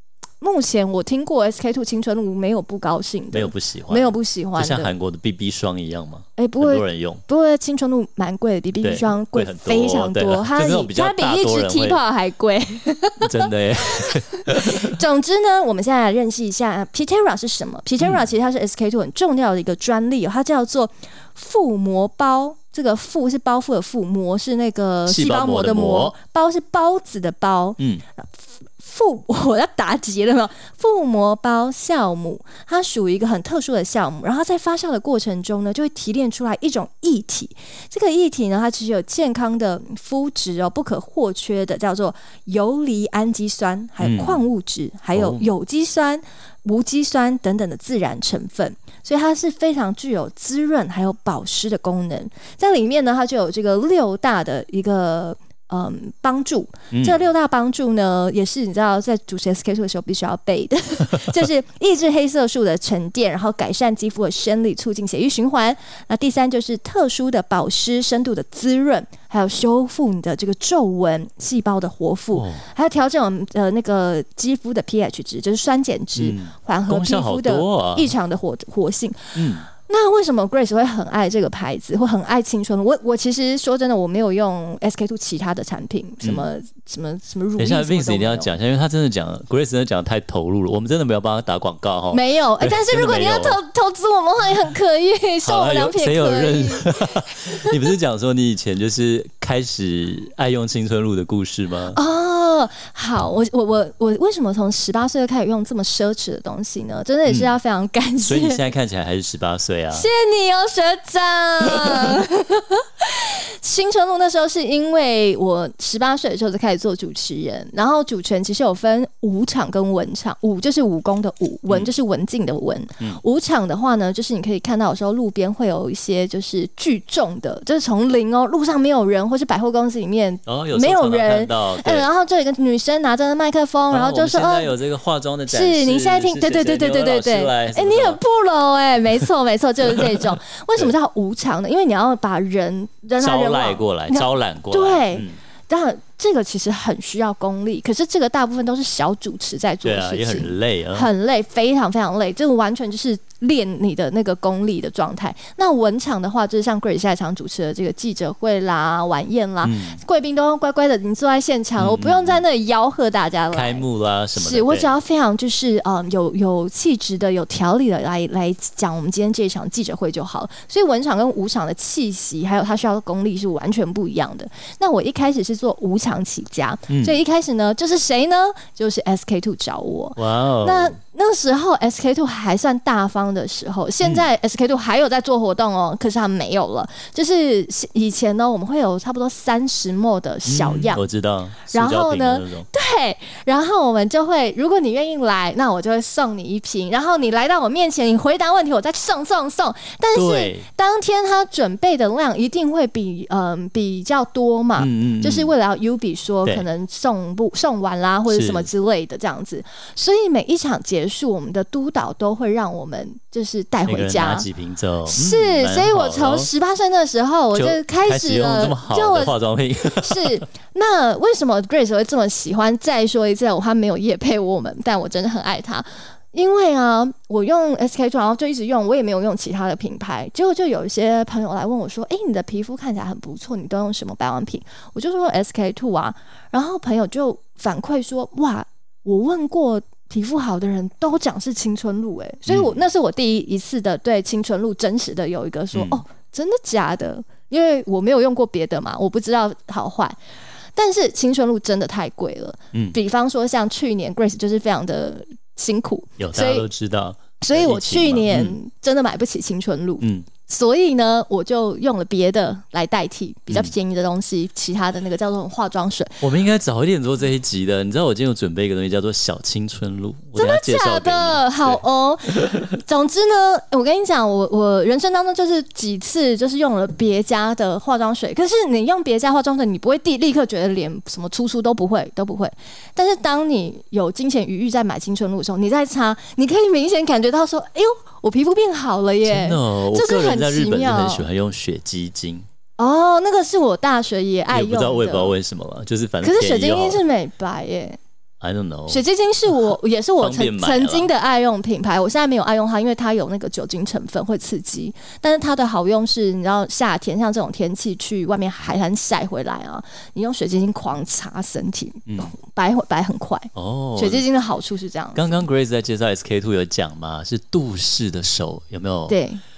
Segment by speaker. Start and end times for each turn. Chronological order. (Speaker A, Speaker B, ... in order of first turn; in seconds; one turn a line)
Speaker A: 0.4-4.9
Speaker B: 3.3-7.2
Speaker A: 6.4-88.5
Speaker B: 8.8-12.0
Speaker B: 13.2-14.9
Speaker B: 18.0-18.3
Speaker B: 25.1-26.1
Speaker B: 44.0-44.5
Speaker B: 45.1-45.5
Speaker B: 56.9-57.2
Speaker B: 72.3-72.6
Speaker B: 76.2-78.1
Speaker B: 79.3-79.7
Speaker B: 86.2-86.5
Speaker B: 87.6-93.6
Speaker A: 92.1-97.8
Speaker B: 95.4-102.0
Speaker A: 101.9-108.6
Speaker B: 107.3-107.5
Speaker B: 108.2-110.1
Speaker A: 109.9-134.7
Speaker B: 130.5-132.1
Speaker B: 133.9-138.2
Speaker A: 135.5-191.0
Speaker B: 143.2-145.4
Speaker B: 149.8-151.1
Speaker B: 159.6-160.0
Speaker B: 161.8-162.4
Speaker B: 163.5-164.9
Speaker B: 176.9-177.2
Speaker B: 180.2-181.0
Speaker B: 190.5-192.7
Speaker A: 191.7-214.5
Speaker B: 200.1-200.7
Speaker B: 204.8-205.5
Speaker B: 208.3-208.7
Speaker B: 213.9-216.5
Speaker A: 215.1-250.2
Speaker B: 217.5-220.4
Speaker B: 242.5-242.8
Speaker B: 245.7-246.0
Speaker A: 250.8-256.7
Speaker B: 256.2-258.6
Speaker A: 257.4-266.2
Speaker B: 260.0-260.3
Speaker B: 266.2-271.8
Speaker A: 270.4-291.2
Speaker B: 289.2-292.5
Speaker A: 292.8-295.4
Speaker B: 294.5-297.0
Speaker A: 296.2-298.0
Speaker B: 298.4-299.0
Speaker A: 298.9-315.4
Speaker B: 300.2-301.1
Speaker B: 312.1-312.4
Speaker B: 313.6-314.2
Speaker B: 315.1-319.2
Speaker A: 319.1-319.4